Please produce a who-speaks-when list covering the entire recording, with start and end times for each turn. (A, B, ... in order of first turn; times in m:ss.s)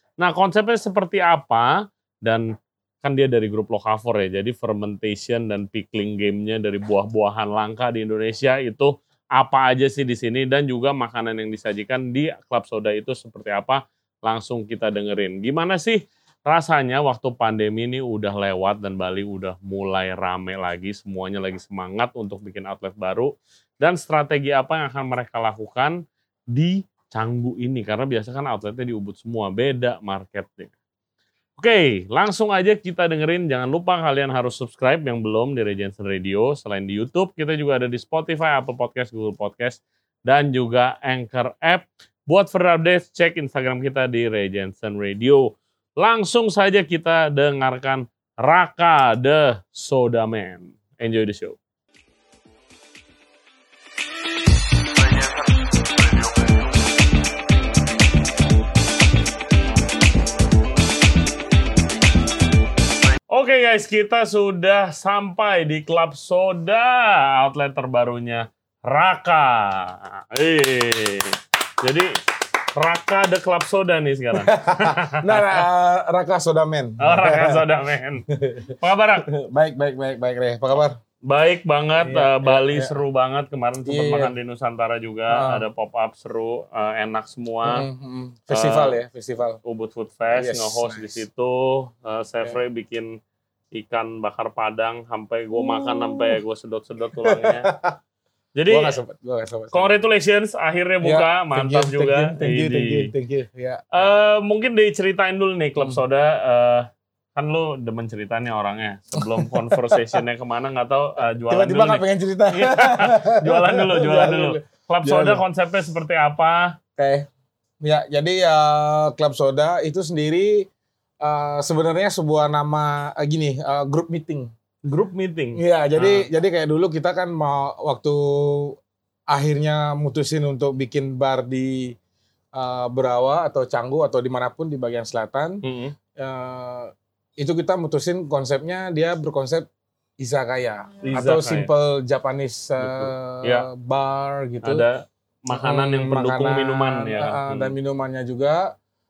0:00.2-0:02.5 A
0:03.0-0:26.0 A
0:26.5-0:30.7 A
0:31.6-0:51.6 A
1:03.3-1:12.2 A
1:12.7-1:15.6 A
1:14.4-1:17.6 B
1:17.0-1:19.3 A
1:18.3-1:18.8 B
1:19.3-1:21.0 B
1:21.2-1:27.8 A
1:22.0-1:23.0 B
1:23.8-1:24.3 B
1:25.3-1:25.6 B
1:27.6-1:29.6 B
1:28.5-1:29.0 A
1:29.6-1:33.2 A
1:30.3-1:31.2 B
1:33.7-1:37.7 A
1:35.6-1:36.4 B
1:37.2-1:38.0 B
1:38.6-1:39.0 A
1:38.7-1:39.9 B
1:39.7-1:43.1 A
1:41.0-1:44.0 B
1:43.9-1:56.8 A
1:49.2-1:50.2 B
1:51.5-1:55.4 B
1:57.0-1:57.3 B
1:57.8-2:00.7 B
2:01.2-2:04.5 B
2:04.8-2:06.3 A
2:05.6-2:08.8 B
2:09.3-2:12.0 B
2:12.5-2:15.6 B
2:15.6-2:16.0 A
2:16.2-2:19.7 B
2:20.2-2:24.8 B
2:21.0-2:21.7 A
2:22.8-2:23.7 A
2:24.6-2:27.7 A
2:25.5-2:28.7 B